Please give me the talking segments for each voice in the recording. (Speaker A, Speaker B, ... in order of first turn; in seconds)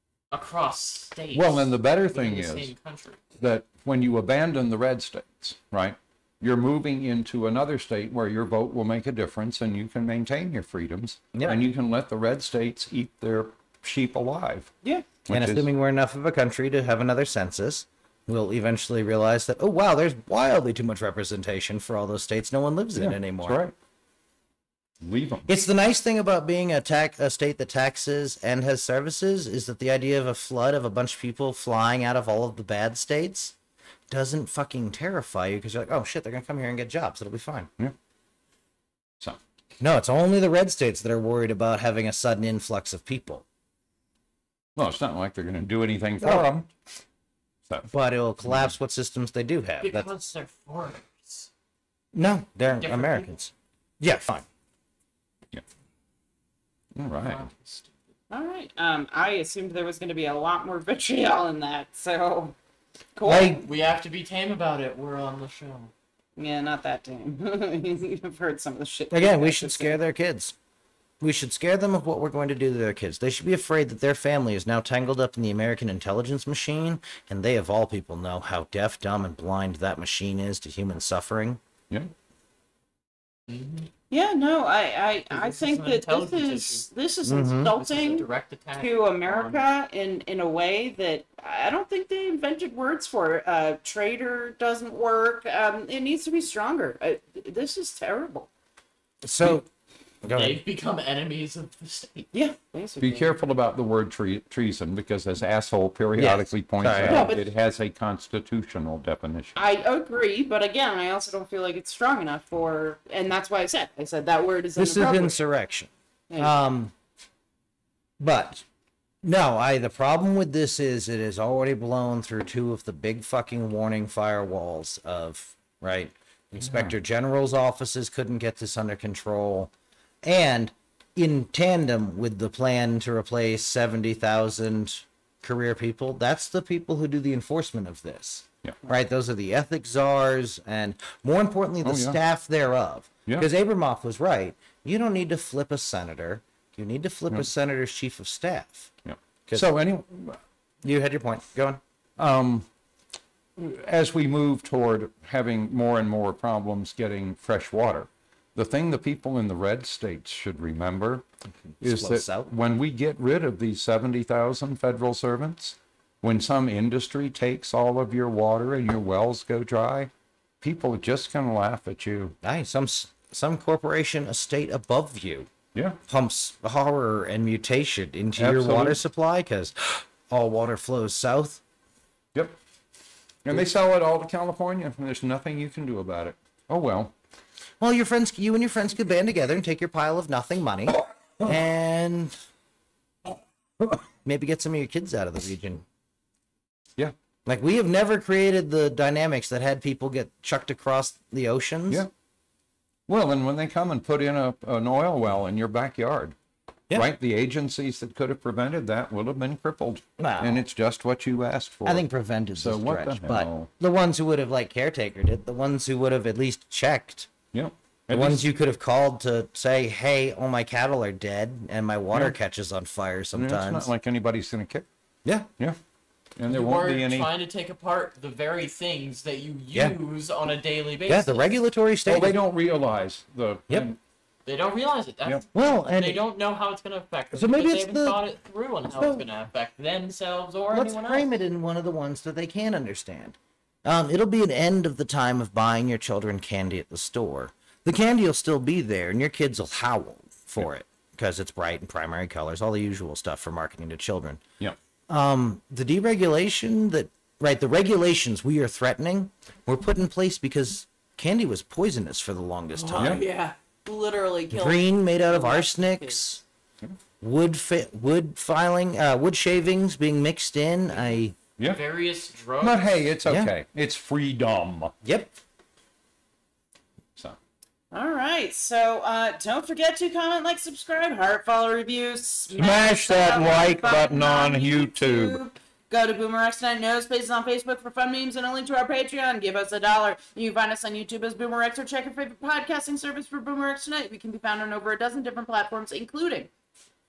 Speaker A: 0.3-3.2, 49.8-51.5, 52.8-53.4, 57.2-57.9, 63.5-65.9, 83.5-83.9, 85.3-86.8, 87.7-89.7, 100.3-102.3, 226.5-231.5, 234.4-241.3, 271.6-273.0
Speaker B: 1.3-2.7, 3.4-14.7, 15.3-15.7, 23.0-23.7, 25.0-25.5, 44.8-46.7, 48.5-48.7, 57.0-57.5, 103.0-109.6, 126.6-126.9, 141.8-142.2, 149.1-150.4, 152.2-152.7, 153.6-161.2, 161.8-172.3, 178.4-179.0, 183.4-187.1, 203.1-206.4, 206.9-212.1, 212.6-213.7, 217.5-218.4, 223.3-224.9, 226.4-227.3, 232.1-234.0, 272.6-274.9, 282.5-285.4
Speaker C: 11.3-11.6, 15.3-23.6, 25.5-33.5, 34.1-37.7, 39.8-43.5, 46.2-46.5, 47.9-50.1, 52.1-54.5, 63.2-63.6, 69.1-70.5, 71.2-81.6, 87.2-87.7, 99.2-99.7, 100.2-100.6, 106.2-107.3, 114.8-116.9, 118.2-118.6, 119.2-129.7, 130.2-148.9, 150.8-151.8, 161.8-162.5, 172.4-175.5, 176.1-181.6, 187.8-192.3, 193.9-195.8, 197.5-202.1, 210.2-210.6, 211.9-217.3, 218.1-223.9, 225.2-225.5, 231.1-232.4, 235.5-236.2, 237.3-238.2, 238.9-239.3, 240.7-254.4, 255.1-263.2, 264.5-266.4, 267.2-271.4, 273.2-273.5, 275.0-275.3
Speaker D: 58.3-62.5, 63.2-63.6, 66.4-70.0, 84.1-88.3, 88.8-98.5, 102.3-103.3, 107.1-107.5, 109.6-115.4, 116.3-116.6, 262.7-266.3, 277.9-296.5